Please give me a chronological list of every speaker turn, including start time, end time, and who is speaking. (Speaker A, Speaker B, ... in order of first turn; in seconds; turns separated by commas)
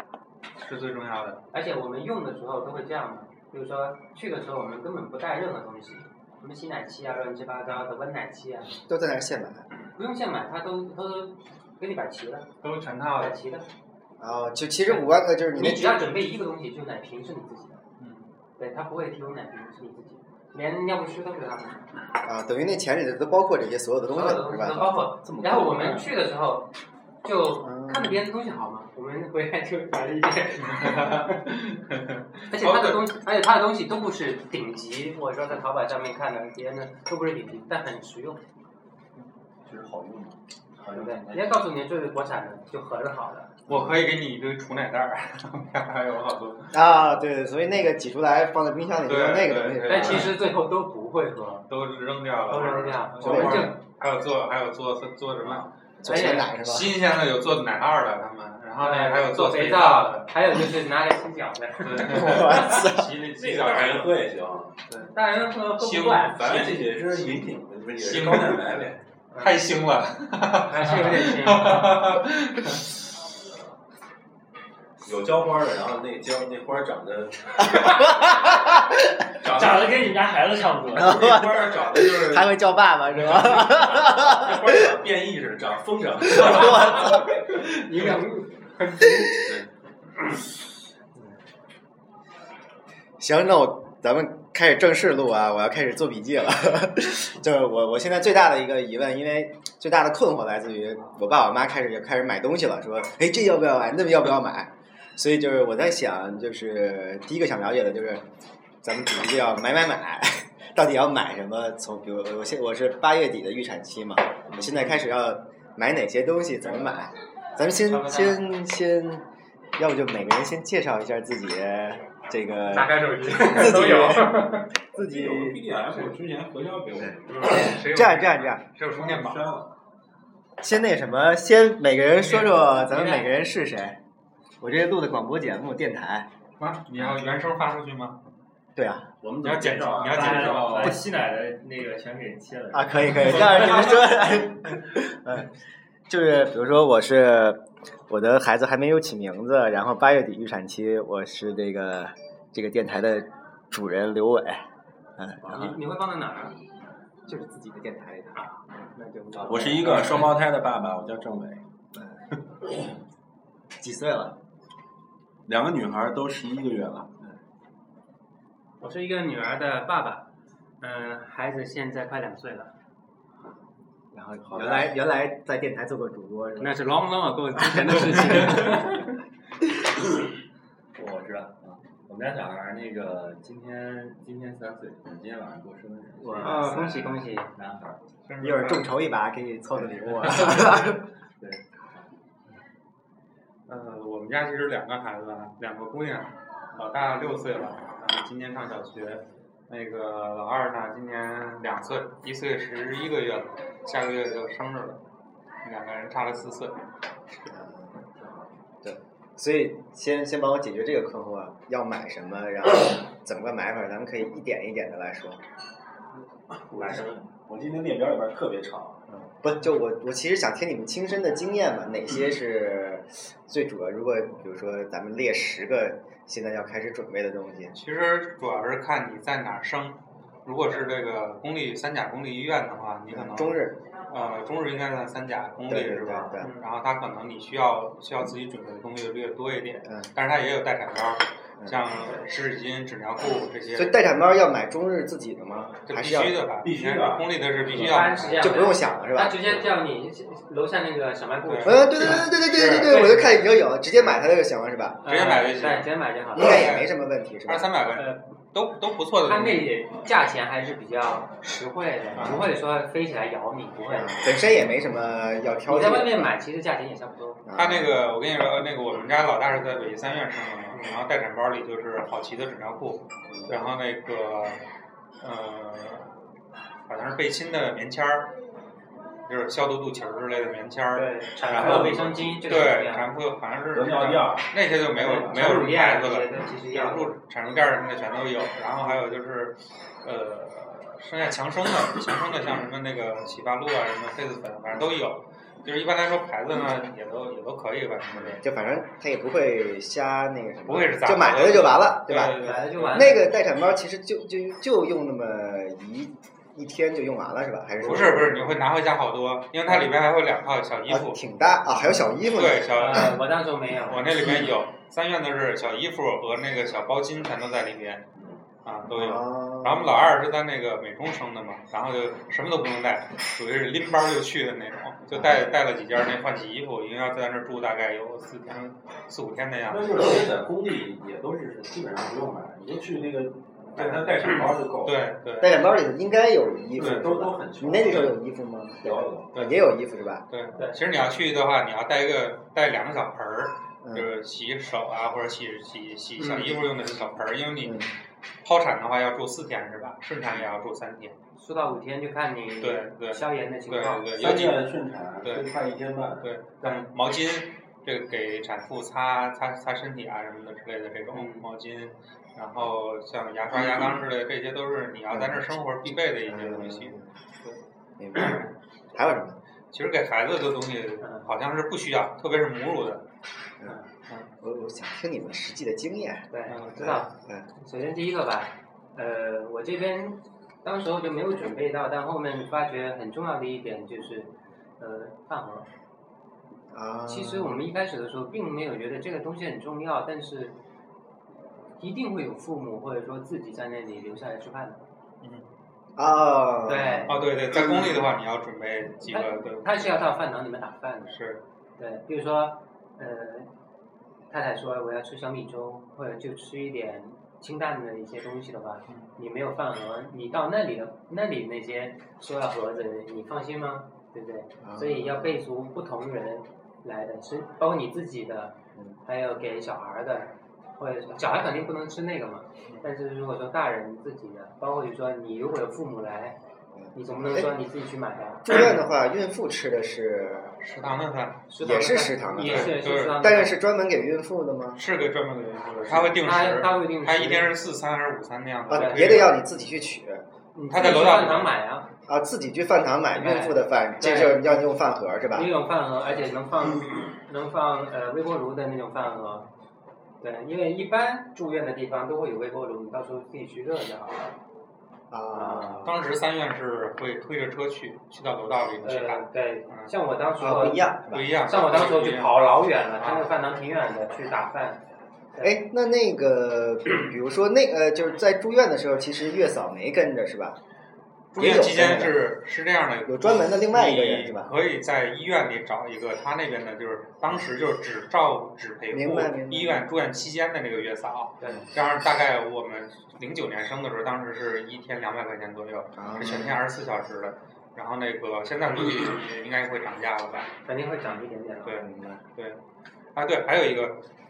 Speaker A: 0.6-1.4, Speaker B: 1.5-8.8, Speaker C: 8.8-9.7, Speaker B: 9.9-12.5, Speaker A: 12.6-13.4, Speaker B: 13.2-13.7, Speaker C: 14.2-16.1, Speaker B: 14.8-17.8, Speaker A: 18.0-18.2, Speaker B: 18.6-21.9, Speaker C: 22.2-24.9, Speaker B: 24.1-26.7, Speaker D: 25.1-26.1, Speaker B: 27.2-31.5, Speaker C: 27.6-28.2, Speaker A: 30.6-33.0, Speaker B: 32.5-38.4, Speaker D: 39.7-40.4, Speaker E: 40.8-41.6, Speaker B: 40.9-43.6, Speaker C: 43.7-44.0, Speaker A: 43.7-47.0, Speaker C: 46.7-50.4, Speaker A: 49.0-50.4, Speaker B: 49.9-51.7, Speaker A: 51.7-60.3, Speaker B: 52.5-53.8, Speaker C: 53.2-53.8, Speaker C: 56.0-57.0, Speaker B: 56.0-56.5, Speaker B: 58.8-62.9, Speaker A: 61.8-64.2, Speaker C: 62.0-63.2, Speaker E: 63.4-63.8, Speaker D: 63.4-64.7, Speaker A: 64.9-65.1, Speaker B: 65.1-66.6, Speaker A: 65.8-67.0, Speaker D: 66.3-69.0, Speaker A: 68.0-68.6, Speaker B: 69.3-69.6, Speaker A: 69.4-72.9, Speaker B: 70.6-72.2, Speaker D: 75.0-78.2, Speaker C: 77.8-79.0, Speaker D: 79.4-80.1, Speaker E: 79.5-81.2, Speaker D: 80.9-82.5, Speaker C: 81.0-84.9, Speaker D: 83.2-87.2, Speaker C: 86.3-87.2, Speaker B: 86.6-89.5, Speaker C: 89.0-89.3, Speaker D: 89.4-89.7, Speaker C: 93.2-108.3, Speaker C: 108.8-119.2, Speaker D: 114.5-114.9, Speaker B: 117.8-118.5, Speaker C: 119.8-125.6, Speaker B: 122.7-124.7, Speaker D: 125.0-127.8, Speaker A: 127.4-129.5, Speaker C: 127.5-128.7, Speaker D: 128.8-129.7, Speaker C: 130.6-134.0, Speaker B: 132.5-133.3, Speaker C: 134.6-136.3, Speaker A: 136.6-138.2, Speaker C: 138.8-139.1, Speaker D: 139.2-141.0, Speaker A: 139.4-141.0, Speaker E: 140.0-144.1, Speaker C: 142.7-145.5, Speaker C: 146.1-154.7, Speaker C: 155.2-155.8, Speaker B: 155.5-156.6, Speaker C: 157.3-158.4, Speaker B: 158.4-160.4, Speaker C: 159.3-160.1, Speaker D: 159.4-161.6, Speaker C: 163.8-164.4, Speaker D: 165.5-167.1, Speaker B: 168.8-170.3, Speaker B: 170.8-172.7, Speaker C: 174.1-176.8, Speaker D: 174.5-174.9, Speaker B: 176.6-179.1, Speaker C: 177.7-179.0, Speaker E: 181.0-188.0, Speaker C: 186.2-187.1, Speaker B: 186.4-187.5, Speaker A: 188.3-188.9, Speaker C: 188.4-191.0, Speaker E: 190.1-191.6, Speaker A: 193.7-205.0, Speaker A: 205.6-206.8, Speaker C: 207.5-207.9, Speaker E: 208.2-208.4, Speaker C: 208.8-215.4, Speaker D: 216.5-219.0, Speaker E: 216.7-217.3, Speaker C: 219.1-227.7, Speaker A: 227.7-244.0, Speaker C: 233.1-233.8, Speaker C: 235.7-236.6, Speaker C: 239.8-240.1, Speaker C: 241.6-241.8, Speaker C: 243.7-246.4, Speaker A: 245.9-248.6, Speaker D: 246.6-248.2, Speaker B: 247.7-253.6, Speaker C: 248.4-249.7, Speaker A: 251.4-253.1, Speaker C: 251.6-255.1, Speaker A: 253.9-254.2, Speaker B: 255.0-256.6, Speaker A: 255.1-256.9, Speaker C: 256.3-257.7, Speaker A: 257.5-259.7, Speaker B: 257.9-258.2, Speaker B: 259.3-264.3, Speaker C: 262.2-262.4, Speaker A: 262.2-262.4, Speaker C: 263.9-266.4, Speaker B: 265.7-267.4, Speaker C: 267.4-268.1, Speaker A: 267.6-274.6, Speaker B: 270.7-271.0, Speaker A: 275.2-276.1, Speaker A: 276.9-278.3, Speaker A: 279.3-298.4, Speaker B: 280.9-283.2, Speaker D: 281.5-282.6, Speaker D: 283.7-284.6, Speaker B: 284.9-287.1, Speaker D: 285.2-285.5, Speaker C: 298.1-308.6, Speaker A: 300.6-303.2, Speaker B: 302.4-303.3, Speaker A: 307.8-311.2, Speaker C: 309.7-309.9, Speaker C: 310.9-313.2, Speaker A: 312.3-313.2, Speaker B: 312.7-314.1, Speaker A: 313.9-318.1, Speaker A: 318.6-330.0, Speaker C: 318.9-320.2, Speaker C: 325.1-325.6, Speaker D: 329.7-335.0, Speaker A: 333.8-335.6, Speaker C: 335.4-340.2, Speaker A: 336.8-337.0, Speaker D: 336.8-338.1, Speaker D: 338.8-339.4, Speaker A: 339.4-339.7, Speaker A: 340.3-347.8, Speaker B: 340.6-340.8, Speaker C: 343.8-344.1, Speaker B: 346.2-346.7, Speaker C: 347.6-347.9, Speaker A: 348.4-351.1, Speaker B: 351.4-354.1, Speaker A: 352.6-354.7, Speaker D: 354.2-356.3, Speaker A: 355.2-355.5, Speaker A: 356.2-367.6, Speaker B: 356.6-356.9, Speaker B: 361.1-361.5, Speaker C: 365.1-367.1, Speaker C: 368.0-369.4, Speaker A: 369.7-373.1, Speaker B: 371.0-371.3, Speaker C: 374.4-377.5, Speaker B: 376.3-385.7, Speaker A: 376.5-377.0, Speaker C: 386.7-387.6, Speaker B: 387.1-390.6, Speaker B: 391.8-394.9, Speaker C: 396.0-397.2, Speaker B: 396.7-397.2, Speaker A: 397.1-400.1, Speaker B: 399.1-401.2, Speaker A: 401.1-401.4, Speaker B: 401.8-403.5, Speaker B: 404.3-426.4, Speaker C: 414.6-415.4, Speaker C: 426.7-427.5, Speaker B: 426.9-428.6, Speaker C: 428.4-430.6, Speaker A: 430.6-431.4, Speaker B: 431.5-433.6, Speaker C: 431.6-434.8, Speaker A: 432.4-433.2, Speaker A: 434.8-439.4, Speaker B: 436.0-437.5, Speaker C: 438.7-440.2, Speaker B: 438.7-439.4, Speaker B: 440.6-441.9, Speaker A: 440.7-441.5, Speaker C: 442.1-445.5, Speaker B: 443.2-444.4, Speaker B: 445.3-449.5, Speaker B: 450.2-454.4, Speaker C: 455.1-456.0, Speaker B: 455.3-455.9, Speaker A: 455.8-459.9, Speaker B: 458.8-460.9, Speaker C: 460.4-461.3, Speaker A: 461.1-462.3, Speaker B: 461.4-464.8, Speaker A: 463.0-463.3, Speaker C: 465.4-470.6, Speaker A: 471.3-490.5, Speaker C: 471.4-472.2, Speaker C: 473.1-474.5, Speaker C: 478.9-479.9, Speaker B: 481.4-481.7, Speaker C: 486.0-486.6, Speaker B: 490.7-491.8, Speaker A: 491.6-492.6, Speaker C: 491.8-492.2, Speaker A: 493.1-494.0